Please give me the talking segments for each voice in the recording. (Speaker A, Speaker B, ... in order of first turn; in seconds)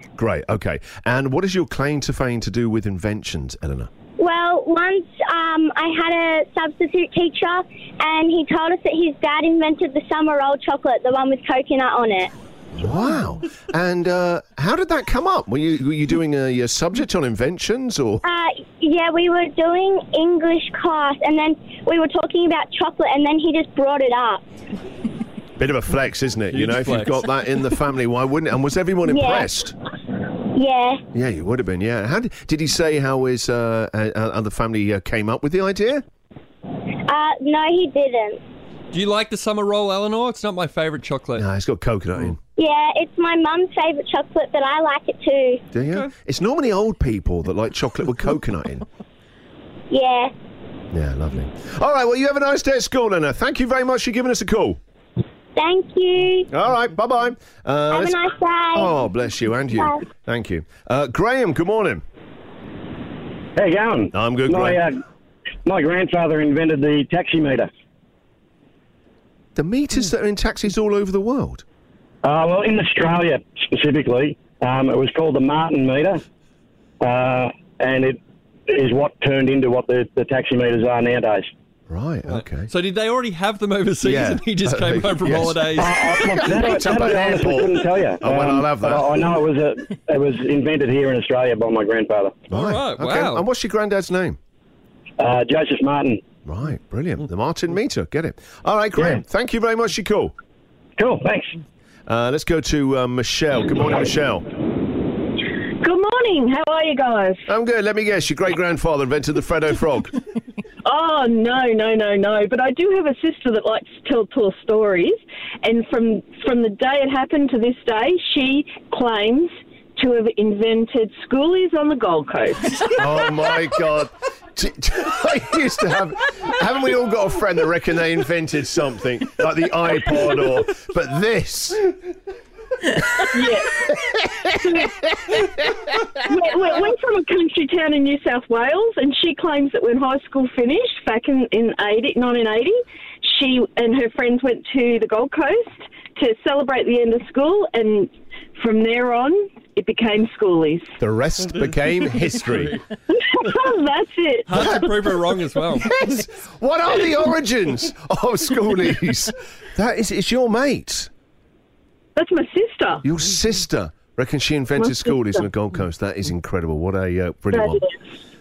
Speaker A: 0.2-3.9, 12.7-18.2, 25.6-29.8, 31.1-36.0, 41.4-42.4, 45.7-48.9, 50.9-54.8, 56.5-62.0, 64.1-64.8, 69.6-71.6, 81.9-82.7, 84.0-85.6, 86.4-89.2, 92.5-94.4, 96.5-100.3, 102.1-104.5, 107.5-110.2, 123.0-131.9, 151.0-152.8, 155.7-161.1, 163.0-167.8
Speaker B: 4.2-12.3, 18.2-24.4, 29.1-29.5, 30.5-31.0, 37.1-38.4, 42.6-45.6, 49.9-50.3, 55.5-56.5, 57.9-58.9
Speaker C: 26.5-27.2, 38.9-41.5, 45.9-46.1, 82.3-86.4, 92.5-93.5, 151.6-152.8, 154.5-155.9
Speaker D: 63.6-65.0, 65.7-67.7, 72.2-76.2, 77.0-81.5, 85.8-92.4, 95.2-96.2, 101.0-101.6
Speaker E: 105.8-107.5, 110.8-123.0, 133.3-133.9, 134.6-134.9, 136.2-151.0, 153.1-154.9, 162.2-163.0, 164.8-165.4, 167.5-168.0